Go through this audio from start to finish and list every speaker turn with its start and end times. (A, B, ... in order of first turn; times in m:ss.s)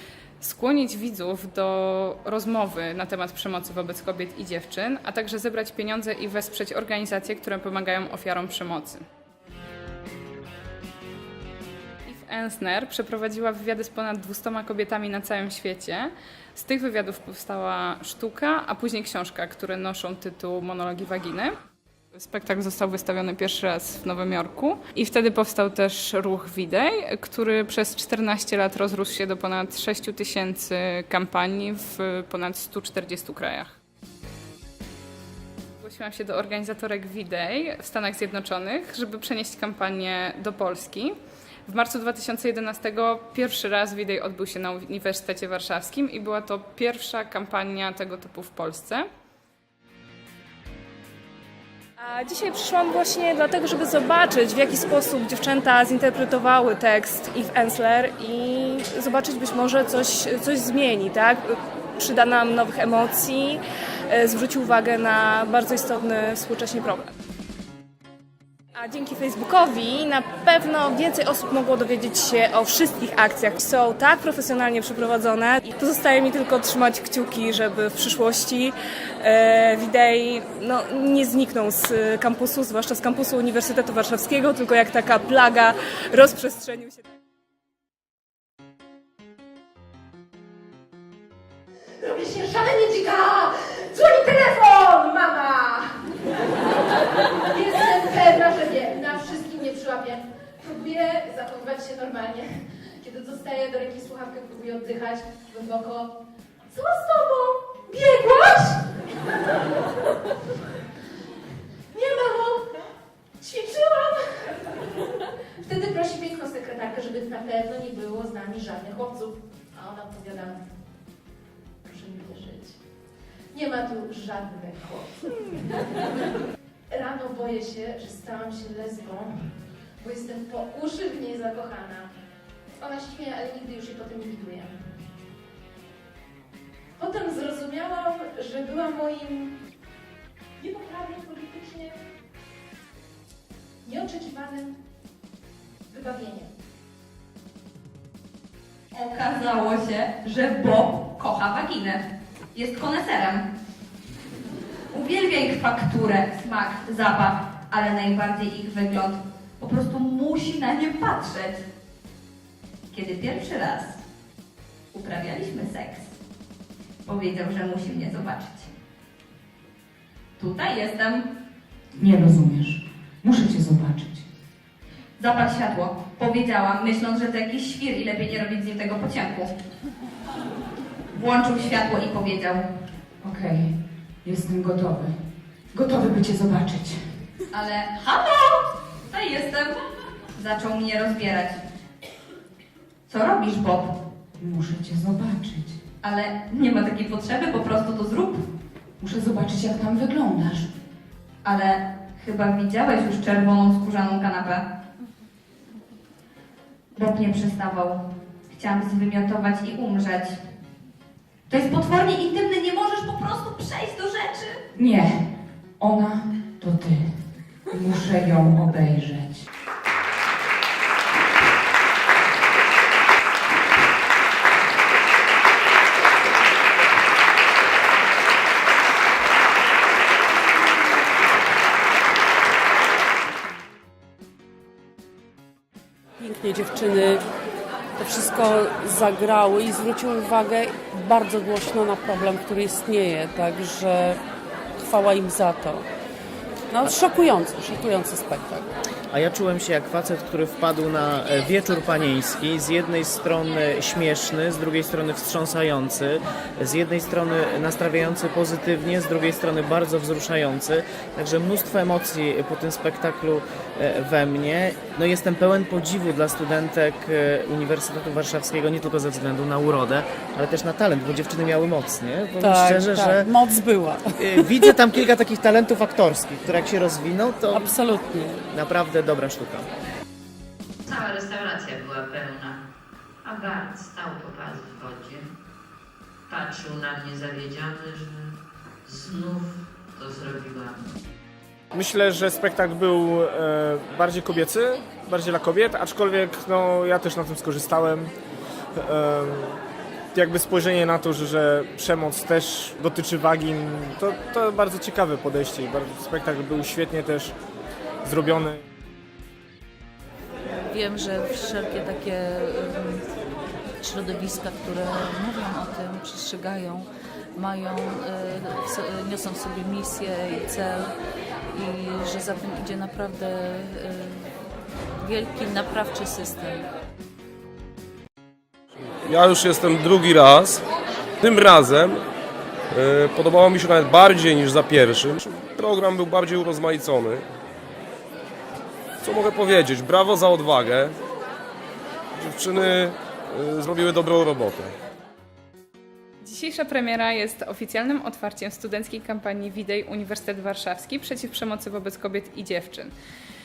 0:00.4-0:09.0 A
0:12.1-0:21.6 A
0:22.1-0:33.8 A
0:35.8-0:49.0 A
0:52.0-1:01.4 B
1:02.0-1:07.1 B
1:08.8-1:27.0 B
1:32.0-1:36.0 C
1:37.4-1:46.2 C
1:46.7-1:48.8 C
1:51.9-1:52.7 C
1:53.4-1:54.7 C
1:55.6-2:00.6 C
2:01.8-2:02.8 C
2:03.5-2:06.0 C
2:06.9-2:12.1 C
2:12.8-2:14.8 C
2:17.0-2:19.6 C
2:20.6-2:22.0 C
2:23.8-2:24.8 C
2:25.9-2:26.5 C
2:28.9-2:32.0 D
2:32.5-2:33.4 D
2:34.9-2:41.6 D
2:42.9-2:44.0 D
2:44.9-2:46.1 D
2:47.1-2:48.7 D
2:50.4-2:51.2 D
2:52.0-2:54.2 E
2:55.2-2:59.5 D
3:01.1-3:02.7 D
3:03.2-3:03.7 E
3:04.2-3:05.1 E
3:05.7-3:07.0 E
3:07.5-3:09.8 D
3:10.4-3:11.6 D
3:13.1-3:13.9 D
3:14.4-3:15.8 E
3:16.0-3:18.4 D
3:19.0-3:20.7 E
3:21.4-3:24.6 D
3:26.9-3:28.0 D
3:28.5-3:30.4 D
3:31.5-3:34.6 D
3:34.7-3:35.2 E
3:35.8-3:37.0 E
3:37.7-3:39.4 E
3:56.2-3:57.2 F
3:58.0-4:04.2 F
4:04.8-4:05.9 F
4:06.7-4:08.7 F
4:09.1-4:33.3 G
4:32.4-4:34.7 F
4:34.2-4:37.8 G
4:37.5-4:38.4 F
4:38.5-4:39.7 G
4:41.0-4:42.6 H
4:43.3-4:45.3 H
4:46.3-4:48.3 H
4:48.9-4:50.8 H
4:51.7-4:58.1 I
4:58.8-4:59.6 I
5:00.2-5:07.3 I
5:08.0-5:08.6 I
5:10.7-5:13.0 J
5:13.8-5:20.9 J
5:21.5-5:24.3 J
5:25.0-5:26.7 J
5:29.0-5:30.6 K
5:31.2-5:32.0 K
5:32.7-5:37.2 K
5:39.0-5:41.0 K
5:42.2-5:44.7 K
5:46.2-5:52.9 A